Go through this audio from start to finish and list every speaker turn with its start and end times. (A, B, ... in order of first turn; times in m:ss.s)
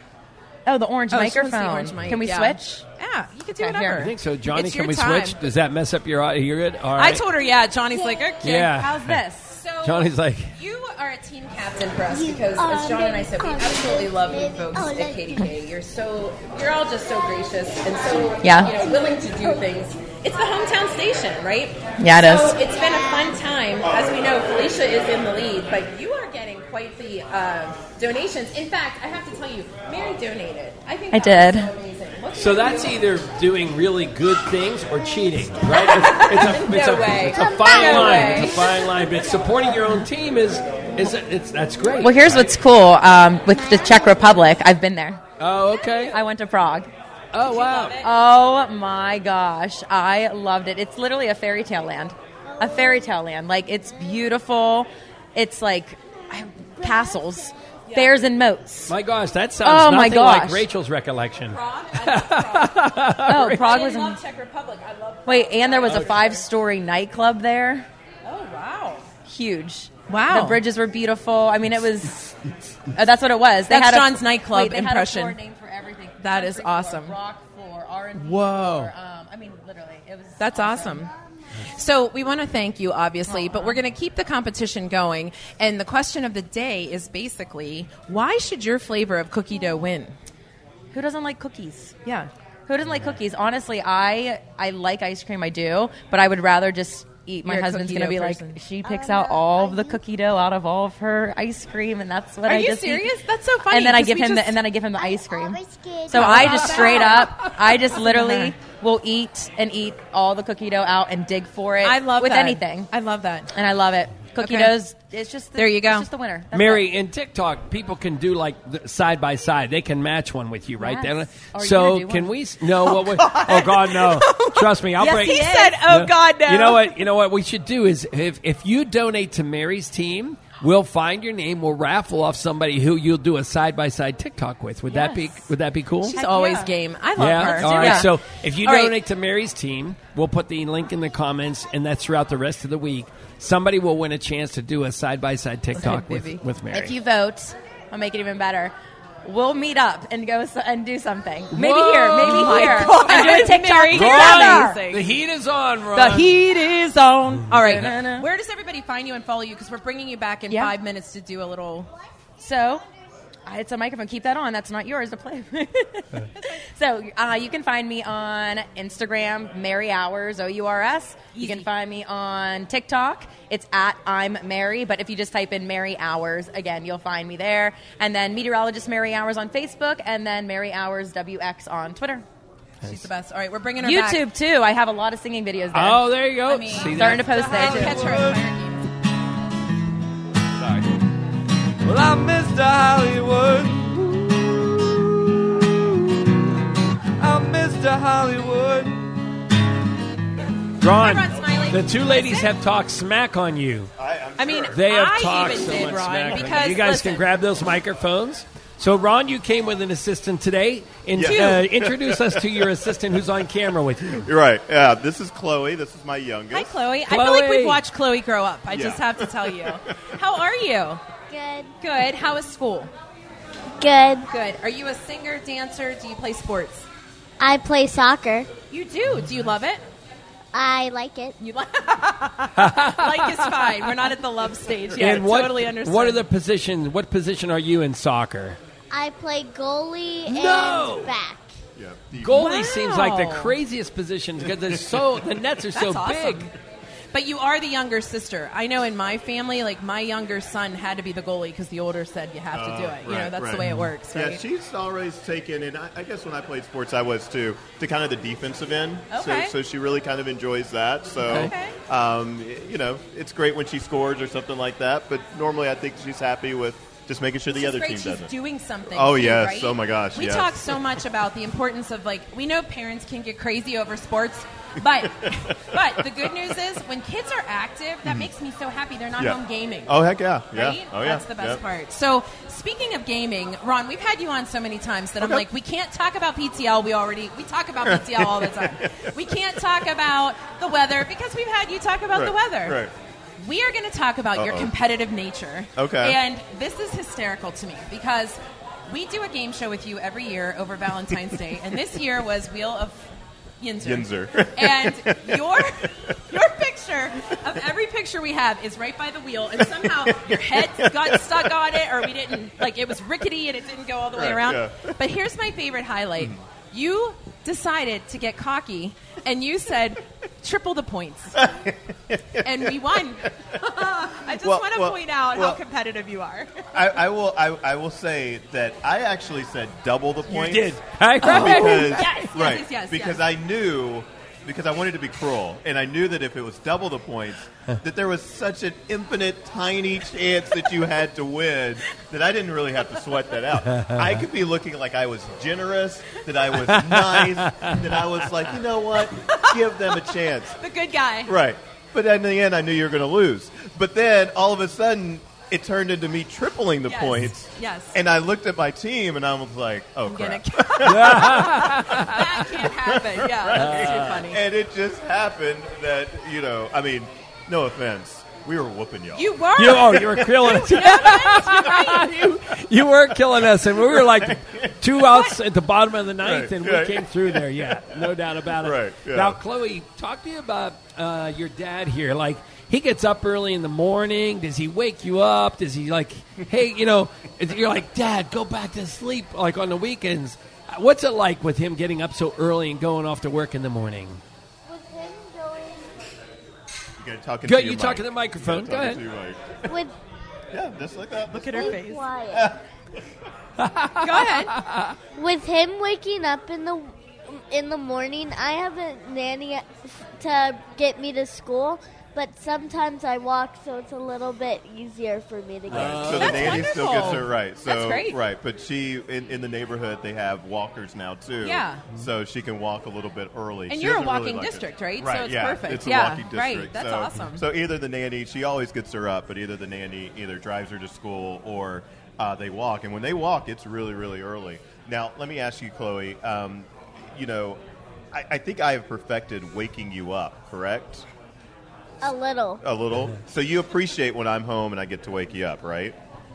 0:00.6-0:02.8 A
0:01.1-0:05.4 B
0:03.6-0:04.0 A
0:04.0-0:07.2 C
0:07.0-0:08.8 B
0:07.9-0:08.4 D
0:08.4-0:09.2 C
0:08.7-0:09.6 A
0:09.5-0:33.1 B
0:09.8-0:10.5 C
0:12.1-0:15.5 D
0:18.4-0:18.7 A
0:18.8-0:19.6 D
0:22.0-0:22.6 A
0:22.6-0:23.4 D
0:31.1-0:31.7 A
0:32.3-0:42.5 C
0:35.7-0:38.6 B
0:37.3-0:39.9 D
0:42.0-0:45.2 A
0:43.5-0:44.3 D
0:45.4-0:46.1 C
0:45.7-0:46.2 B
0:46.1-0:46.9 A
0:47.3-0:48.0 C
0:47.4-0:48.1 B
0:48.0-0:58.9 A
0:52.5-0:53.1 D
0:53.9-0:54.2 D
0:56.8-0:57.5 D
0:57.9-0:58.1 B
0:58.9-1:03.6 C
0:59.6-1:00.6 A
1:01.5-1:06.4 B
1:03.2-1:04.2 A
1:05.2-1:07.9 A
1:08.2-1:09.0 B
1:09.2-1:12.3 A
1:10.1-1:10.6 B
1:12.9-1:21.1 A
1:13.7-1:15.4 B
1:16.2-1:17.2 B
1:18.2-1:18.9 C
1:20.4-1:21.1 B
1:21.7-1:30.1 B
1:23.2-1:23.8 A
1:30.9-1:32.0 A
1:32.0-1:32.3 B
1:32.7-1:52.9 A
1:37.4-1:38.6 B
1:38.8-1:40.0 D
1:42.4-1:44.6 B
1:45.0-1:47.2 D
1:46.1-1:48.5 B
1:51.8-1:53.5 B
1:53.5-1:56.9 A
1:54.4-1:54.8 B
1:55.6-1:56.1 B
1:56.5-2:16.2 C
2:00.8-2:02.3 A
2:03.2-2:06.9 B
2:05.0-2:05.8 A
2:14.9-2:15.2 A
2:16.0-2:18.9 B
2:16.1-2:16.7 A
2:17.2-2:26.9 C
2:17.4-2:18.1 A
2:25.8-2:26.4 B
2:26.7-2:34.8 A
2:31.5-2:36.4 C
2:32.1-2:35.1 B
2:35.9-2:41.9 B
2:37.6-2:38.3 A
2:40.5-2:40.7 A
2:42.4-2:42.8 A
2:43.4-3:02.2 A
2:51.3-2:51.7 B
3:02.8-3:04.3 B
3:03.8-3:06.1 A
3:05.7-3:07.4 C
3:06.4-3:08.9 B
3:06.8-3:08.1 A
3:07.4-3:08.4 E
3:11.8-3:16.4 E
3:17.2-3:19.1 E
3:20.8-3:23.9 C
3:20.8-3:22.5 B
3:24.0-3:24.8 F
3:24.4-3:27.2 B
3:24.7-3:34.3 C
3:31.1-3:32.6 F
3:31.2-3:31.6 B
3:34.2-3:36.8 F
3:36.5-3:41.0 B
3:37.1-3:37.8 C
3:38.7-3:39.8 F
3:41.3-3:41.7 D
3:41.8-3:42.9 B
3:43.8-3:44.3 D
3:44.3-3:46.9 B
3:47.4-3:48.5 D
3:48.7-3:49.8 B
3:50.5-3:51.4 D
3:51.4-3:56.2 B
3:52.6-3:53.6 C
3:55.0-3:58.6 C
3:58.9-4:01.5 D
4:00.2-4:01.1 C
4:01.8-4:02.5 F
4:02.2-4:06.5 C
4:02.3-4:03.6 B
4:05.7-4:06.5 B
4:07.1-4:14.4 B
4:12.5-4:28.3 F
4:13.6-4:14.0 C
4:19.1-4:19.5 B
4:21.2-4:21.5 C
4:21.3-4:21.7 B
4:27.5-4:40.0 B
4:28.9-4:30.8 F
4:35.2-4:36.0 F
4:38.0-4:38.3 F
4:39.2-4:41.6 F
4:40.5-4:52.8 B
4:45.2-4:45.4 F
4:47.8-4:49.2 F
4:52.1-4:52.9 F
4:53.4-5:21.4 B
4:54.3-4:54.7 F
4:55.8-4:56.2 F
5:03.8-5:05.6 F
5:09.6-5:12.0 F
5:14.1-5:14.9 F
5:21.4-5:23.3 F
5:22.4-5:26.6 B
5:24.3-5:25.6 F
5:26.7-5:50.6 F
5:30.3-5:32.3 C
5:31.2-5:33.2 B
5:43.7-5:44.1 C
5:46.5-5:47.8 C
5:49.3-5:49.9 B
5:50.6-5:51.3 B
5:51.2-6:01.8 F
5:56.8-5:58.0 B
6:00.0-6:04.4 B
6:00.8-6:02.4 C
6:02.8-6:09.3 F
6:03.5-6:04.3 C
6:09.1-6:12.4 B
6:09.5-6:34.2 C
6:09.9-6:10.5 F
6:13.7-6:14.7 F
6:15.1-6:15.4 B
6:16.2-6:17.6 F
6:18.6-6:19.4 F
6:34.7-6:35.9 D
6:37.0-6:39.7 F
6:37.4-6:39.0 C
6:39.7-6:39.9 D
6:40.5-6:42.6 F
6:41.3-6:42.0 B
6:41.5-6:42.5 D
6:43.6-6:44.9 C
6:44.0-6:44.6 B
6:45.2-6:56.8 D
6:55.7-7:17.6 F
6:56.0-6:58.2 B
7:01.4-7:01.8 B
7:03.7-7:07.4 B
7:18.1-7:21.0 F
7:22.0-7:22.6 D
7:22.6-7:25.9 F
7:22.9-7:23.2 C